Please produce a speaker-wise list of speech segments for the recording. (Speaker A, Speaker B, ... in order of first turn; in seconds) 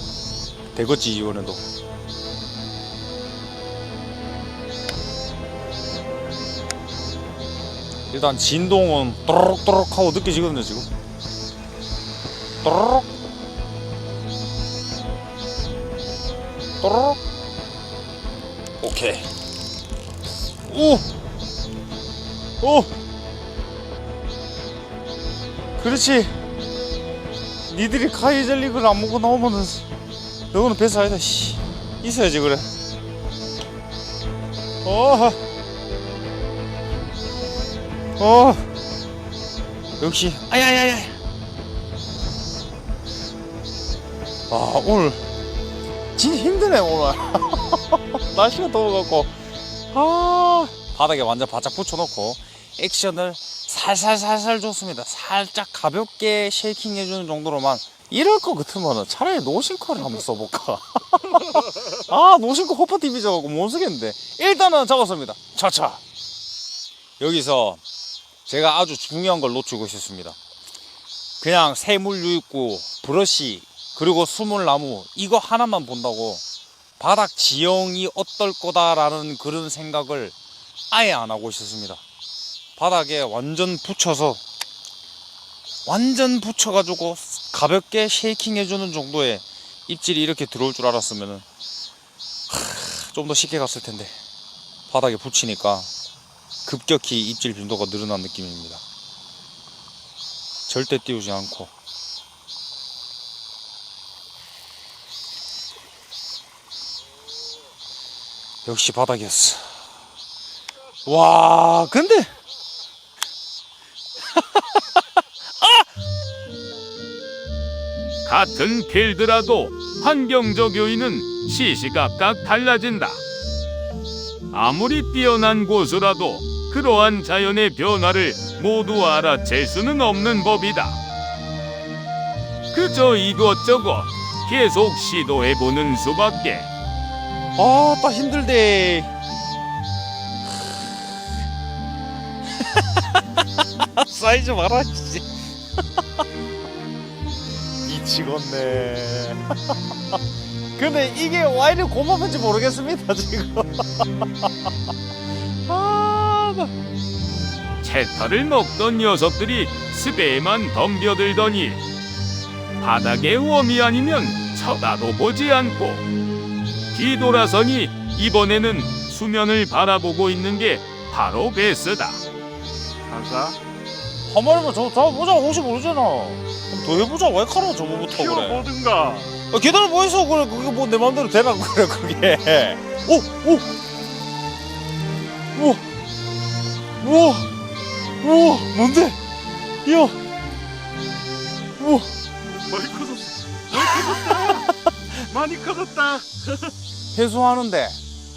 Speaker A: 0.7-1.6, 8.1-10.9, 12.6-13.1, 16.8-17.2, 18.8-19.3, 20.7-21.1, 22.6-22.9, 25.8-26.4, 27.7-29.9, 30.5-32.7, 34.8-35.4, 38.2-38.6, 40.0-41.2, 44.5-45.2, 46.2-49.3, 49.9-66.0, 67.2-67.8, 68.5-70.4, 71.4-76.4, 77.0-80.4, 80.9-82.0, 82.8-84.4, 85.9-91.5, 92.5-94.2, 94.9-95.9, 96.7-98.8, 100.7-101.7, 108.7-109.8, 111.0-112.3, 114.3-114.8, 115.6-115.9, 137.6-139.1, 142.6-145.3, 147.8-149.7, 150.8-154.7, 155.7-156.7, 174.3-178.7, 179.5-183.7, 185.6-185.8, 187.0-187.5, 188.2-189.2, 189.8-190.2, 191.8-192.1, 193.8-194.7, 197.1-198.0
Speaker B: 118.2-123.2, 124.5-131.0, 132.7-136.7, 157.8-161.8, 162.8-166.0, 166.9-172.2
Speaker C: 173.1-173.6, 178.1-179.3, 192.6-194.7, 195.3-196.7